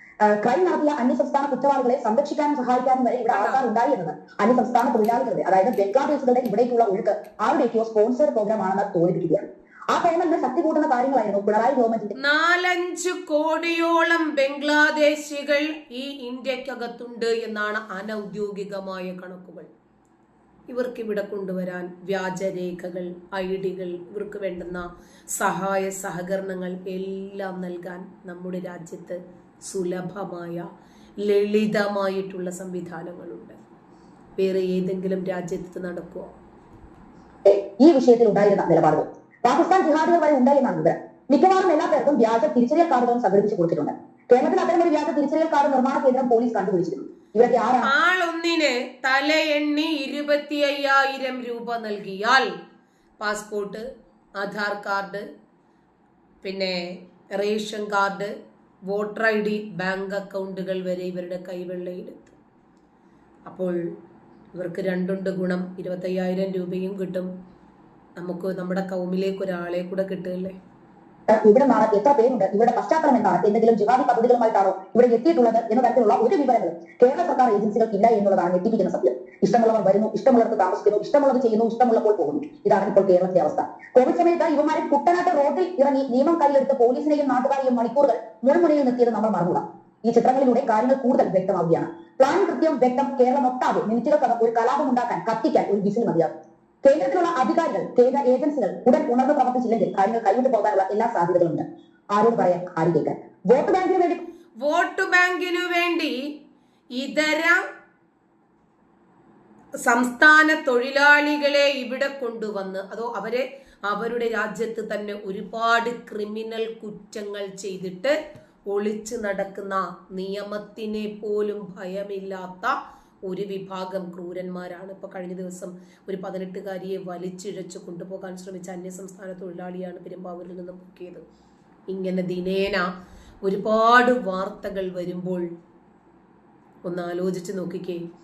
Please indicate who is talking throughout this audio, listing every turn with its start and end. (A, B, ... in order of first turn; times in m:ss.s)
0:00.2-0:12.2 A
0:03.3-0:03.6 B
0:12.2-0:19.7 B
0:20.7-0:24.8 B
0:25.4-0:30.6 B
0:31.2-0:33.6 B
0:34.4-0:36.3 B
0:37.5-0:47.9 A
0:47.8-0:52.5 B
0:53.2-0:53.8 B
0:54.4-0:55.2 B
0:56.4-0:56.8 B
0:57.4-0:58.3 B
0:58.9-1:02.4 B
1:03.5-1:03.8 B
1:04.6-1:07.3 B
1:08.2-1:10.6 B
1:11.3-1:44.2 A
1:44.6-1:46.2 B
1:47.0-1:47.6 B
1:49.8-1:58.2 B
1:58.7-2:02.8 B
2:03.3-2:11.2 B
2:11.9-2:12.9 B
2:13.4-2:15.5 B
2:16.8-2:18.0 B